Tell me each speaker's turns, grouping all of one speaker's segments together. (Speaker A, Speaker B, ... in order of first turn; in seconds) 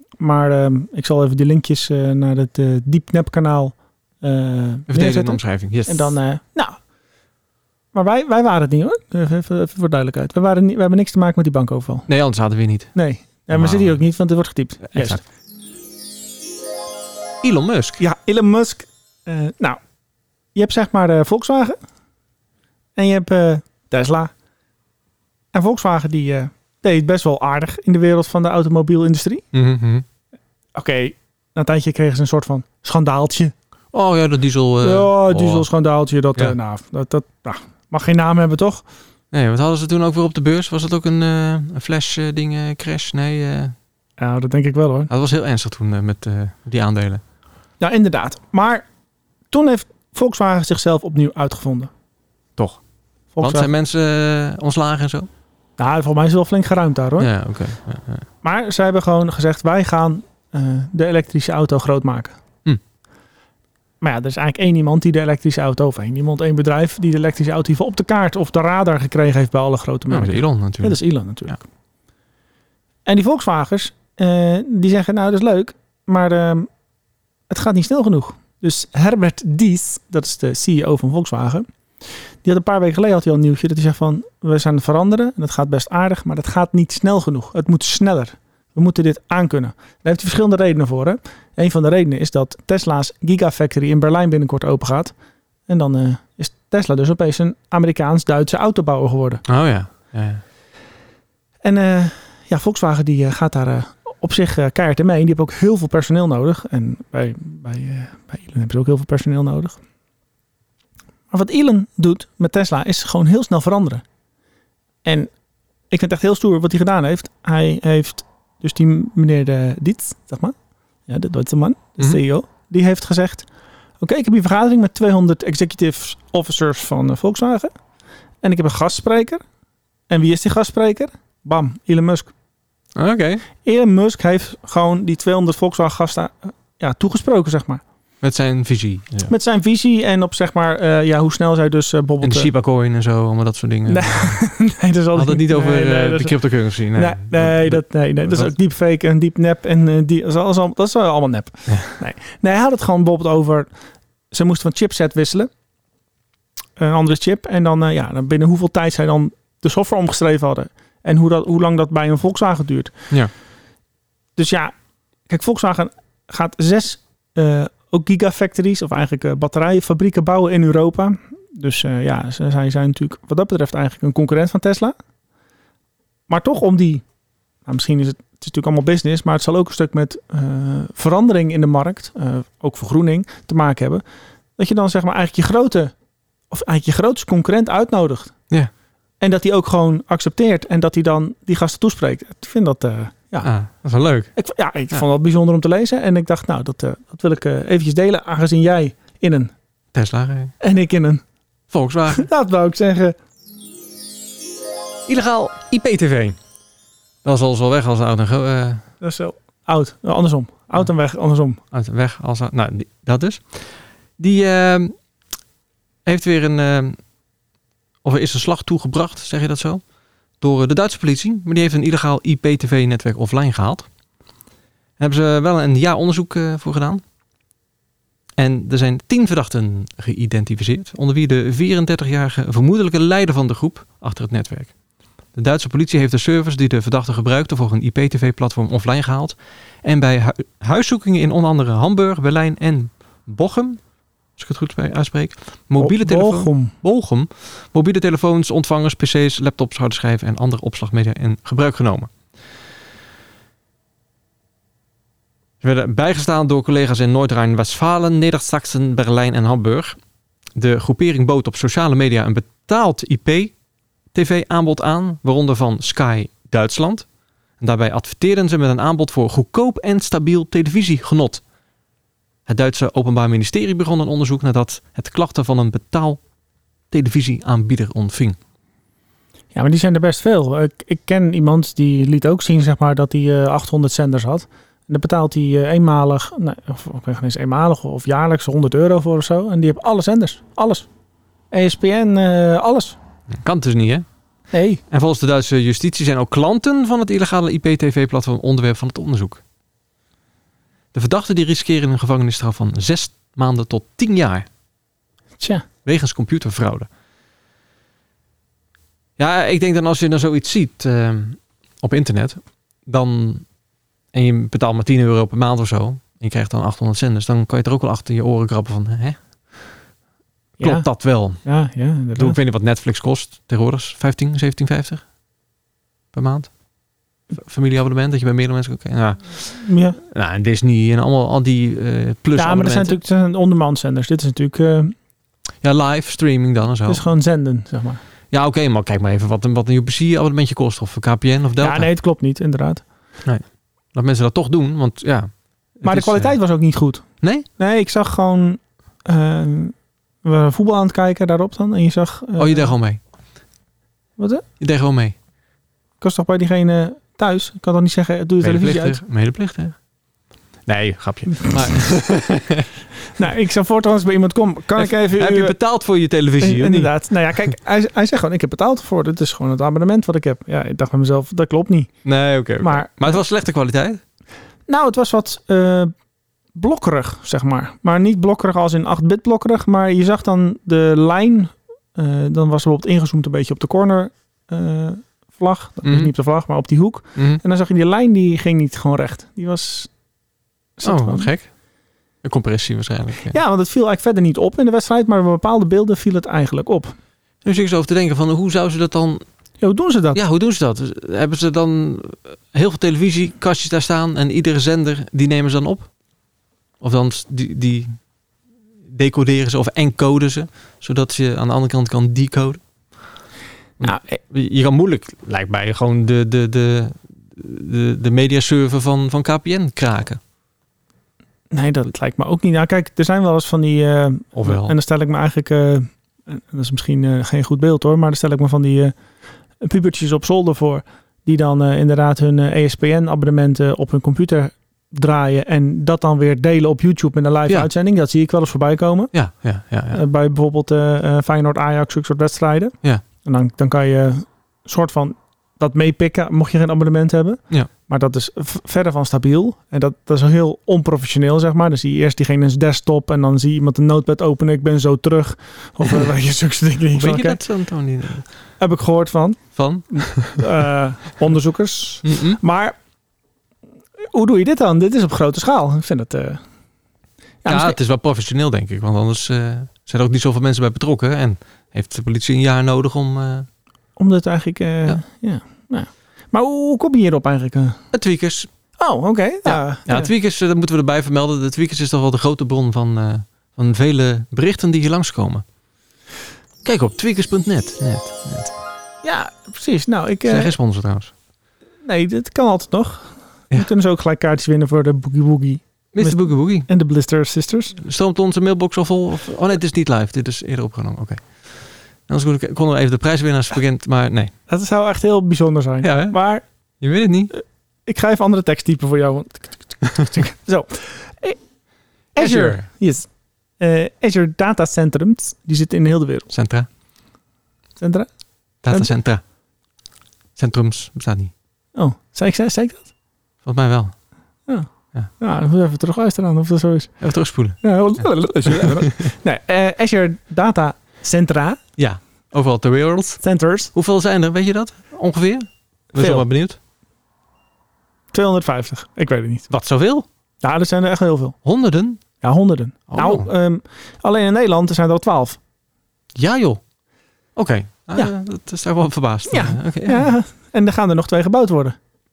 Speaker A: 0.2-6.8, 7.9-12.1, 12.9-15.2, 18.0-19.8, 20.6-21.8, 23.0-24.3, 25.5-29.4, 30.8-33.5, 34.8-38.9, 44.2-45.1, 47.8-48.9, 49.5-51.9, 53.4-53.7, 55.8-57.3, 58.4-62.4, 64.0-71.6, 73.1-76.7, 77.5-81.7, 82.4-95.1, 95.7-99.4, 101.6-109.8, 111.3-114.0, 115.0-115.3, 115.9-120.5, 121.1-123.5, 124.0-127.7, 128.4-129.4, 130.1-132.3, 133.6-137.8, 139.3-142.5, 143.9-146.3, 146.9-153.7, 154.3-155.5, 156.8-163.1, 164.4-164.7, 165.3-174.9, 176.3-177.0, 177.7-184.0, 184.6-185.9, 186.5-188.3, 189.2-193.5, 194.4-199.5, 200.6-201.2, 202.1-203.2, 209.0-211.6, 245.8-246.7, 279.5-290.9, 291.5-293.0, 294.5-294.8, 305.4-305.7, 320.6-320.9, 321.4-322.4, 329.5-330.0, 332.4-334.9, 336.9-338.0, 341.6-342.8, 345.8-352.7, 354.2-354.4, 356.0-359.0, 363.2-365.6, 366.4-371.9, 372.6-373.2, 374.7-375.9, 376.6-389.9, 390.8-391.3, 393.3-396.9, 399.6-400.2, 413.8-414.2, 421.5-428.9, 429.6-439.1, 439.9-457.4, 458.6-462.8, 464.1-466.4, 467.4-467.8, 474.0-477.8, 478.8-480.1, 489.0-490.6, 491.8-497.8, 504.5-506.4, 507.3-511.4, 512.1-516.3, 517.8-518.1, 521.8-522.9, 524.5-527.0, 527.6-531.6, 533.2-533.7, 536.0-536.3, 538.1-539.5, 540.4-541.4, 542.2-545.4, 549.3-551.8
Speaker B: 4.9-6.2, 12.1-12.9, 13.5-14.0, 14.9-15.2, 17.4-18.0, 29.5-30.1, 33.9-35.7, 39.3-43.8, 45.1-47.2, 53.4-55.3, 57.2-58.3, 70.1-71.0, 99.5-100.4, 132.9-133.4, 138.2-139.3, 142.2-144.4, 145.1-148.5, 151.7-151.9, 193.4-194.3, 199.9-200.5, 201.7-202.3, 205.1-206.4, 207.2-208.8, 211.7-214.9, 216.1-217.0, 218.0-219.8, 220.4-223.9, 225.0-227.0, 228.4-234.7, 235.3-243.8, 244.4-252.1, 255.6-260.0, 260.6-263.5, 264.1-267.1, 267.6-271.4, 272.5-276.2, 276.9-278.4, 293.3-294.1, 294.9-299.4, 300.9-304.5, 305.9-306.9, 309.2-313.4, 314.1-319.2, 320.6-321.4, 322.2-325.0, 326.1-326.5, 327.3-329.4, 330.0-333.0, 335.6-337.0, 338.3-341.9, 343.2-346.4, 352.4-353.0, 354.6-355.1, 358.4-359.8, 360.7-362.7, 364.8-366.9, 372.1-374.0, 385.9-386.1, 387.2-387.4, 390.8-391.5, 392.2-393.4, 397.4-399.2, 400.1-405.9, 406.8-408.0, 408.9-412.6, 413.8-420.2, 424.4-424.8, 439.1-440.0, 456.9-458.3, 459.6-460.4, 462.0-462.4, 467.5-473.5, 477.9-478.5, 479.4-485.4, 486.6-488.6, 490.3-491.1, 495.9-496.7, 497.8-504.3, 505.8-506.2, 506.8-507.3, 512.2-512.7, 516.3-516.7, 518.6-519.2, 520.4-521.3, 523.5-523.9, 527.0-527.6, 528.4-529.1, 531.8-533.2, 533.7-536.6, 539.5-540.1, 541.4-542.0, 542.9-543.3, 546.2-546.6, 547.4-550.1